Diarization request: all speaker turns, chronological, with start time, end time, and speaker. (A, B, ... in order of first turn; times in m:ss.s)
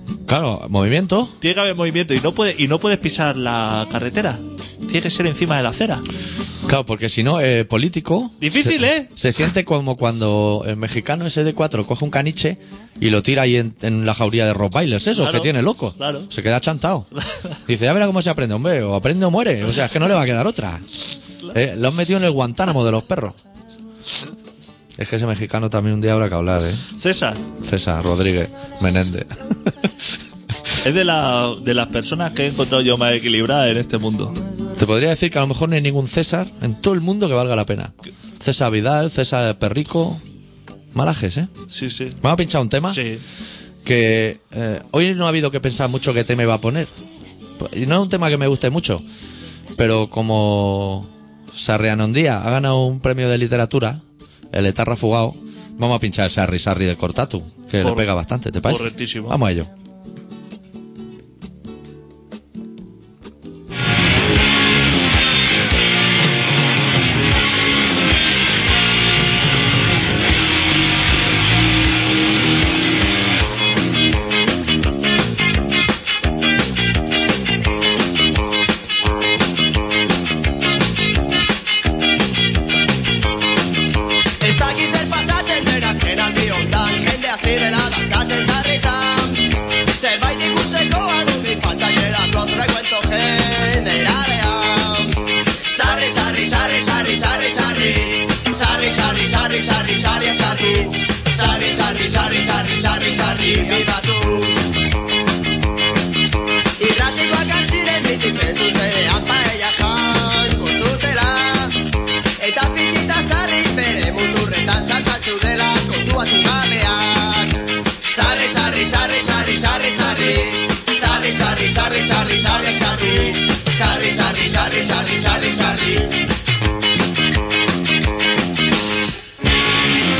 0:00.3-0:01.3 A
0:01.4-0:06.0 B
0:06.6-0:17.1 A
0:08.4-0:09.1 B
0:15.2-0:16.3 B
0:17.2-0:17.6 B
0:17.6-0:20.8 A
0:21.5-0:23.4 A
0:25.0-0:26.8 A
0:27.0-0:27.4 B
0:27.6-0:29.3 A
0:30.8-0:34.4 B
0:34.8-0:40.2 A
0:40.9-0:41.5 A
0:41.7-0:42.2 B
0:42.2-0:43.0 A
0:42.9-0:43.2 B
0:43.8-0:46.9 A
0:47.6-0:49.0 A
0:49.8-0:59.7 A
0:57.8-0:58.1 B
0:58.6-0:59.4 B
1:24.4-1:44.6 C
1:46.8-1:51.8 C
1:52.4-2:06.1 C